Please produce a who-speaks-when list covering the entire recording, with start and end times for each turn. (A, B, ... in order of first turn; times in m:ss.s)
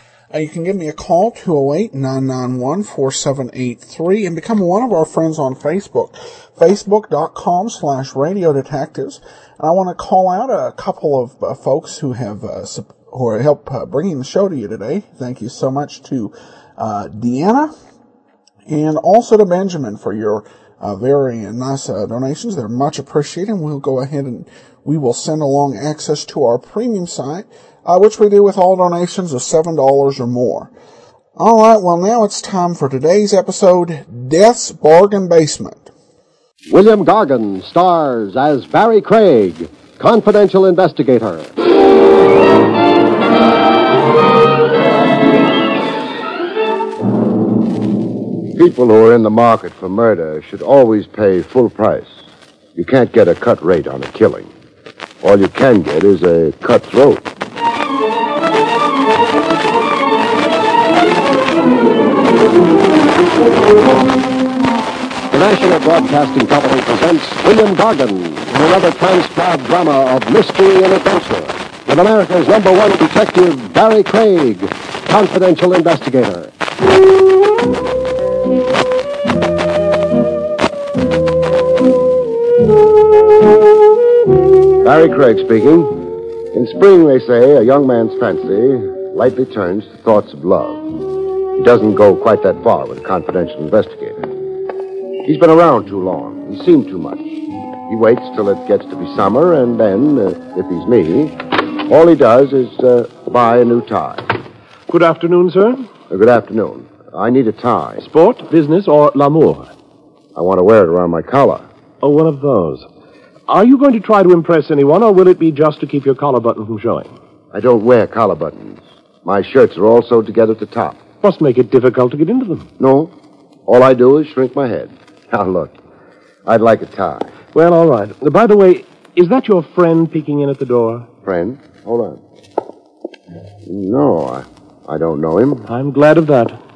0:00.3-0:17.7 A
0:18.7-0:30.7 A
0:31.4-0:35.9 A
0:36.7-0:41.5 B
0:48.6-0:52.2 C
0:52.8-0:54.5 C
0:55.2-0:57.3 C
1:05.3-1:16.5 B
1:24.8-1:30.8 C
1:31.6-1:34.3 C
1:35.2-1:44.3 C
1:44.9-1:45.9 D
1:46.1-1:48.1 C
1:48.0-1:49.7 D
1:50.4-1:51.7 C
1:52.0-1:52.9 D
1:53.5-1:57.1 D
1:57.5-2:01.0 C
2:01.2-2:02.7 D
2:02.8-2:03.1 C
2:03.7-2:05.8 C
2:06.4-2:07.4 C
2:07.5-2:11.1 D
2:11.2-2:12.2 C
2:13.7-2:15.7 C
2:15.7-2:16.6 D